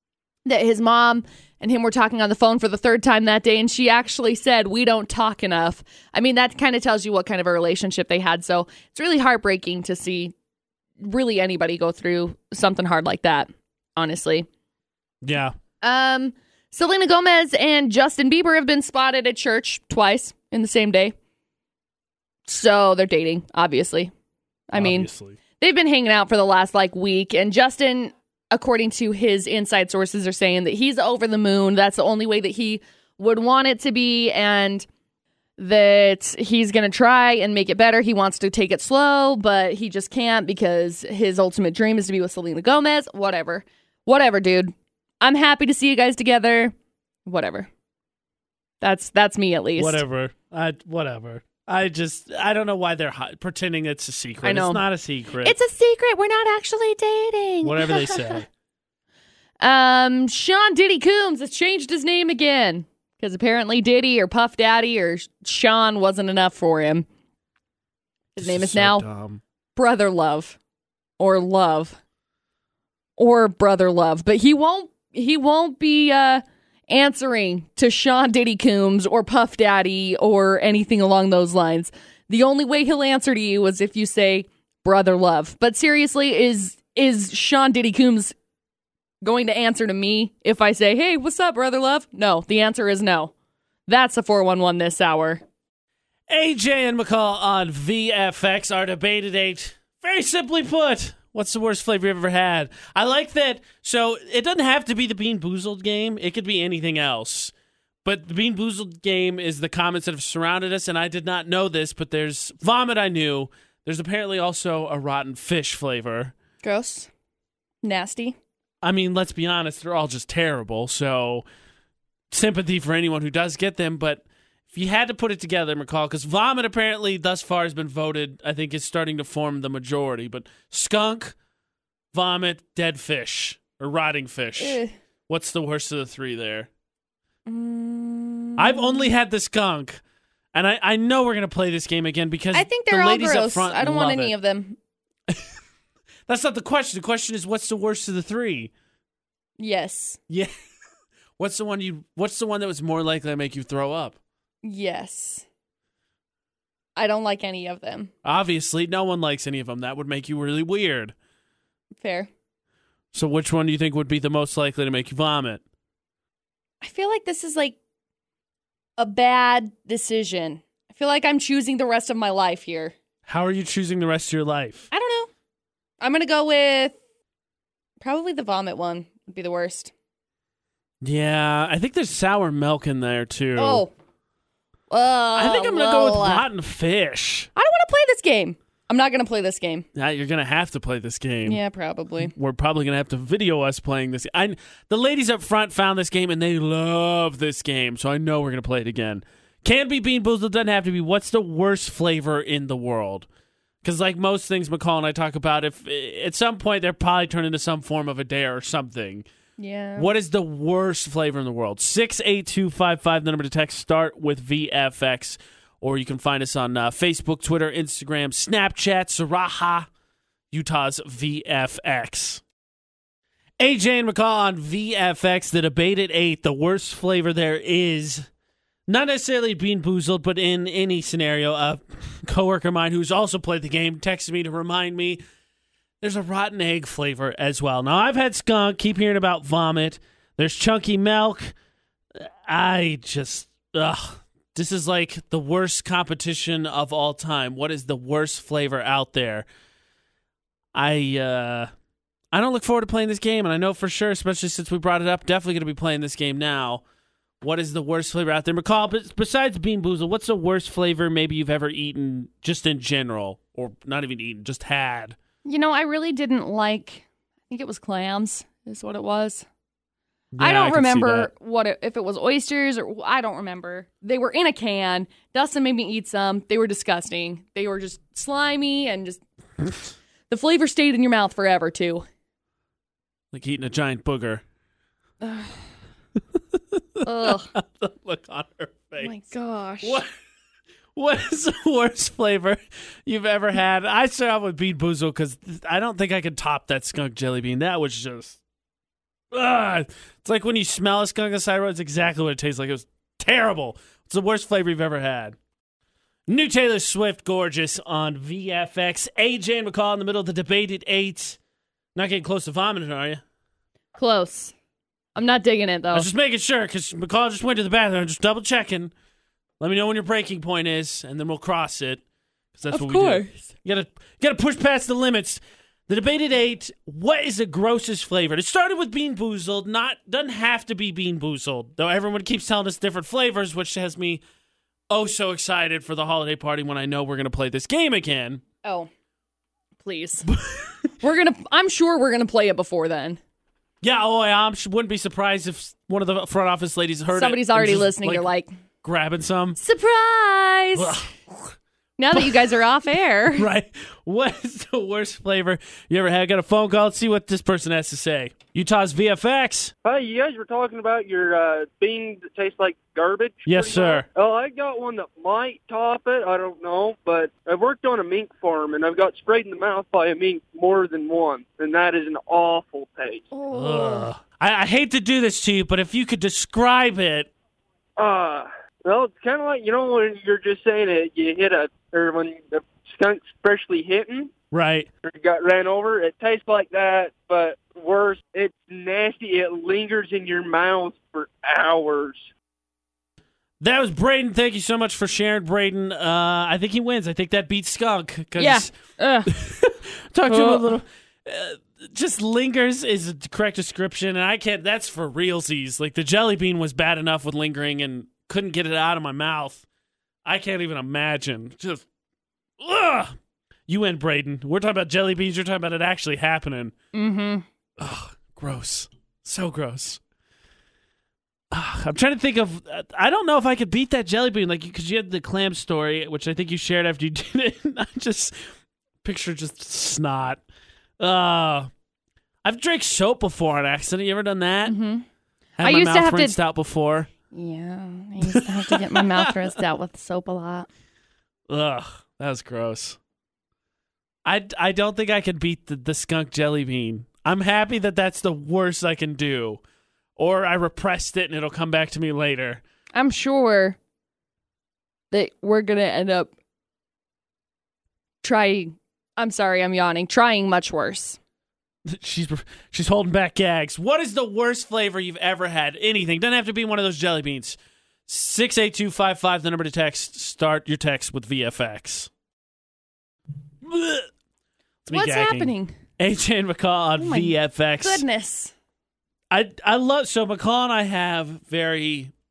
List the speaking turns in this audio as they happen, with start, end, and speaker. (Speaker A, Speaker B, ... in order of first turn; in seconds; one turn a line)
Speaker A: 0.5-10.3
Speaker A: 11.0-14.5
Speaker B: 15.2-15.6
Speaker A: 15.8-21.1
Speaker A: 22.5-24.1
Speaker A: 24.7-25.1
Speaker B: 24.7-25.4
Speaker A: 25.6-34.9
Speaker A: 35.6-46.7
Speaker A: 47.3-47.7
Speaker A: 48.8-50.0
Speaker B: 49.8-55.6
Speaker A: 54.4-54.8
Speaker A: 55.4-58.4
Speaker B: 57.6-58.5
Speaker A: 59.6-67.1
Speaker A: 68.4-69.0
Speaker B: 68.4-69.4
Speaker A: 69.8-70.6
Speaker A: 71.2-72.0
Speaker A: 73.2-88.3
Speaker A: 89.2-93.3
Speaker A: 93.9-95.4
Speaker B: 96.3-107.5
Speaker B: 108.0-116.3
Speaker A: 116.6-117.1
Speaker A: 117.8-118.4
Speaker B: 118.8-121.5
Speaker B: 122.3-131.4
Speaker B: 132.1-136.7
Speaker A: 134.6-134.9
Speaker A: 137.4-139.1
Speaker B: 138.6-140.0
Speaker B: 140.5-144.3
Speaker A: 142.5-144.8
Speaker B: 145.3-145.5
Speaker B: 146.3-148.7
Speaker A: 149.6-150.2
Speaker B: 151.4-154.2
Speaker A: 154.6-155.4
Speaker A: 156.9-158.1
Speaker B: 158.2-161.1
Speaker A: 162.0-162.3
Speaker B: 163.1-165.6
Speaker A: 166.8-167.8
Speaker A: 169.0-172.9
Speaker B: 173.3-174.9
Speaker A: 174.9-175.3
Speaker A: 176.0-177.0
Speaker A: 178.0-179.9
Speaker B: 181.0-183.9
Speaker A: 183.6-183.9
Speaker A: 184.9-186.4
Speaker B: 185.3-187.5
Speaker A: 187.6-189.9
Speaker B: 189.9-191.6
Speaker A: 191.4-192.3
Speaker B: 192.2-203.3
Speaker B: 203.8-209.3
Speaker A: 209.6-210.1
Speaker B: 209.9-219.9
Speaker B: 220.5-222.4
Speaker B: 223.6-228.3
Speaker B: 228.9-235.2
Speaker B: 236.0-241.5
Speaker B: 242.2-249.4
Speaker B: 250.7-251.7
Speaker B: 252.3-256.8
Speaker B: 257.4-265.2
Speaker A: 265.4-269.4
Speaker B: 270.3-271.3
Speaker A: 270.4-279.2
Speaker A: 280.3-282.1
Speaker B: 283.3-284.4
Speaker A: 285.2-285.7
Speaker B: 286.8-289.1
Speaker A: 287.0-287.5
Speaker A: 289.0-290.0
Speaker B: 289.8-290.1
Speaker B: 290.9-298.4
Speaker B: 299.3-305.4
Speaker B: 306.3-311.4
Speaker B: 311.9-313.2
Speaker A: 313.9-314.5
Speaker A: 315.1-316.1
Speaker B: 315.9-318.9
Speaker B: 319.6-322.0
Speaker B: 322.6-334.2
Speaker A: 322.7-323.5
Speaker B: 334.9-338.4
Speaker A: 338.6-338.9
Speaker A: 339.8-340.3
Speaker B: 340.3-340.9
Speaker A: 341.0-343.2
Speaker B: 343.8-348.3
Speaker A: 347.1-348.5
Speaker B: 348.8-349.6
Speaker A: 349.6-351.0
Speaker B: 350.7-351.6
Speaker A: 352.0-353.5
Speaker B: 353.3-359.7
Speaker C: 359.8-373.3
Speaker B: 363.4-364.1
Speaker A: 373.3-374.1
Speaker B: 373.5-377.3
Speaker C: 378.0-384.3
Speaker B: 384.5-384.9
Speaker C: 385.1-392.3
Speaker B: 393.6-398.7
Speaker A: 398.4-399.3
Speaker B: 399.3-409.6
Speaker A: 400.3-400.8
Speaker B: 410.2-411.9
Speaker B: 412.6-413.1
Speaker B: 413.7-416.7
Speaker A: 416.9-417.4
Speaker B: 417.8-420.0
Speaker B: 421.5-430.4
Speaker B: 431.0-431.7
Speaker B: 432.4-434.8
Speaker A: 434.7-435.1
Speaker B: 435.6-437.1
Speaker A: 435.6-436.4
Speaker A: 437.3-440.7
Speaker B: 438.3-439.3
Speaker B: 441.5-443.0
Speaker B: 444.2-449.6
Speaker B: 450.2-452.6
Speaker A: 452.9-453.8
Speaker A: 455.1-456.3
Speaker A: 458.2-461.2
Speaker B: 461.8-472.1
Speaker B: 473.6-474.1
Speaker B: 474.8-478.0
Speaker A: 474.9-475.8
Speaker A: 477.0-478.5
Speaker B: 479.3-482.1